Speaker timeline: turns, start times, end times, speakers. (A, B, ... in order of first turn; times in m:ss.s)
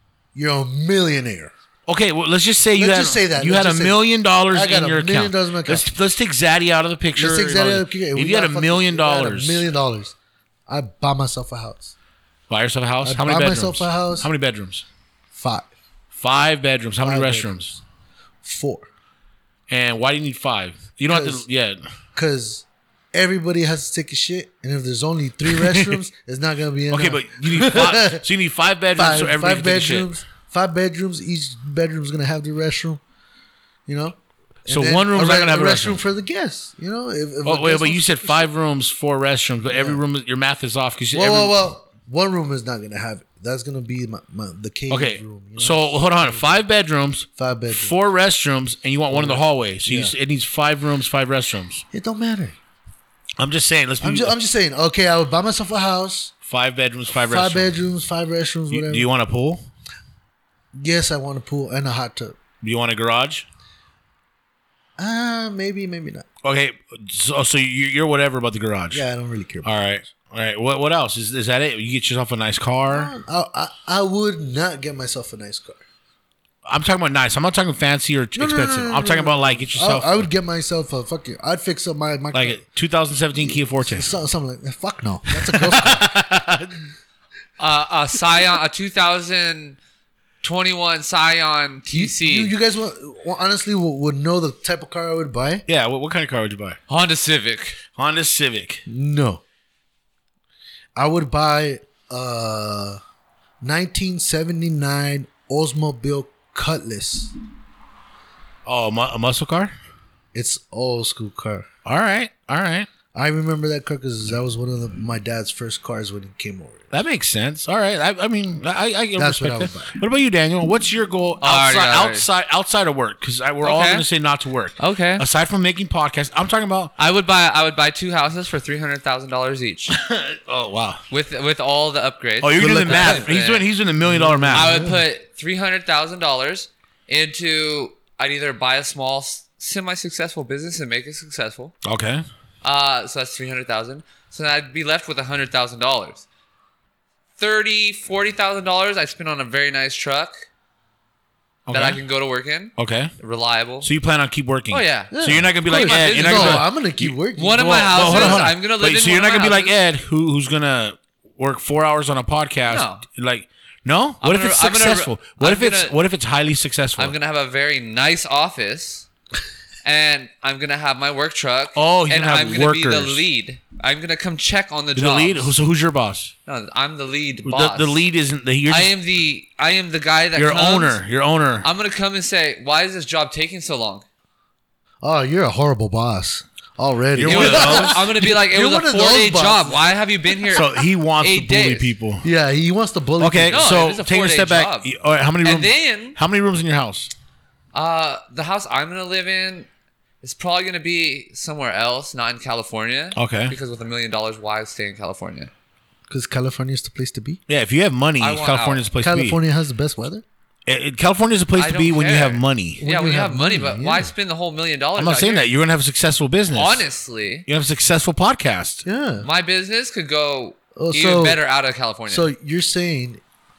0:00.4-0:01.5 A
0:01.9-0:09.7 B
0:02.8-0:05.9 A
0:07.2-0:10.2 A
0:10.7-0:11.9 A
0:12.5-0:14.8 B
0:13.0-0:14.3 A
0:15.3-0:15.7 A
0:16.1-0:17.8 B
0:17.0-0:17.6 A
0:18.4-0:18.9 A
0:19.7-0:21.8 B
0:21.1-0:21.4 A
0:22.2-0:28.2 A
0:25.5-0:26.0 B
0:26.9-0:30.1 B
0:29.0-0:33.0 A
0:33.9-0:38.5 A
0:34.7-0:36.0 B
0:37.4-0:41.6 B
0:39.7-0:40.0 A
0:41.1-0:46.5 A
0:44.9-0:51.8 B
0:47.4-0:47.9 A
0:49.1-0:50.1 A
0:51.9-0:52.6 A
0:53.4-0:54.3 B
0:54.0-0:56.3 A
0:56.5-0:57.7 B
0:57.2-0:59.1 A
0:58.7-0:59.6 B
1:00.7-1:02.4 A
1:02.6-1:03.5 B
1:05.0-1:06.3 A
1:06.4-1:09.0 B
1:08.9-1:09.8 A
1:09.6-1:13.1 B
1:12.9-1:15.8 A
1:16.7-1:20.3 B
1:18.4-1:22.6 A
1:22.3-1:24.1 B
1:23.4-1:26.3 A
1:25.5-1:26.7 B
1:27.6-1:29.8 C
1:30.4-1:32.5 C
1:31.9-1:35.6 A
1:35.7-1:36.8 B
1:36.9-1:37.8 C
1:38.0-1:38.8 B
1:38.9-1:39.4 A
1:41.0-1:43.0 A
1:43.6-1:47.3 A
1:48.6-1:49.7 B
1:50.3-1:51.7 A
1:51.8-1:52.9 B
1:53.1-1:56.9 A
1:56.9-2:06.9 B
1:59.2-2:00.0 A
2:01.4-2:02.3 C
2:03.6-2:04.1 C
2:04.8-2:05.2 C
2:07.0-2:10.0 C
2:09.9-2:11.0 B
2:11.1-2:13.7 C
2:12.4-2:14.8 B
2:12.6-2:13.3 A
2:14.0-2:15.0 A
2:14.5-2:21.7 C
2:21.8-2:22.2 B
2:22.6-2:26.2 C
2:27.4-2:30.4 C
2:31.7-2:32.0 B
2:31.7-2:33.9 C
2:32.8-2:33.1 B
2:33.8-2:47.2 B
2:34.7-2:35.1 C
2:35.1-2:38.5 A
2:35.7-2:36.7 C
2:37.4-2:39.8 C
2:42.7-2:43.0 C
2:44.2-2:46.0 C
2:47.0-2:49.1 C
2:49.8-2:55.5 C
2:51.8-2:53.2 B
2:55.0-2:56.3 B
2:56.5-2:58.0 C
2:57.4-2:58.9 B
2:58.7-3:01.0 C
3:00.4-3:01.7 B
3:01.6-3:04.0 C
3:05.0-3:09.8 A
3:07.2-3:08.1 B
3:07.2-3:11.9 C
3:10.5-3:12.3 B
3:12.2-3:13.7 A
3:13.2-3:17.1 B
3:13.5-3:14.9 C
3:15.4-3:16.2 C
3:17.7-3:19.7 C
3:20.2-3:25.5 C
3:23.2-3:23.6 B
3:26.1-3:27.4 A
3:27.5-3:29.4 B
3:28.2-3:28.8 C
3:29.0-3:30.2 A
3:30.7-3:32.8 B
3:31.6-3:35.5 C
3:32.8-3:34.1 A
3:35.0-3:36.9 B
3:36.5-3:37.4 C
3:37.5-3:38.8 B
3:38.8-3:39.3 A
3:39.2-3:42.3 C
3:40.8-3:41.4 A
3:42.1-3:43.2 A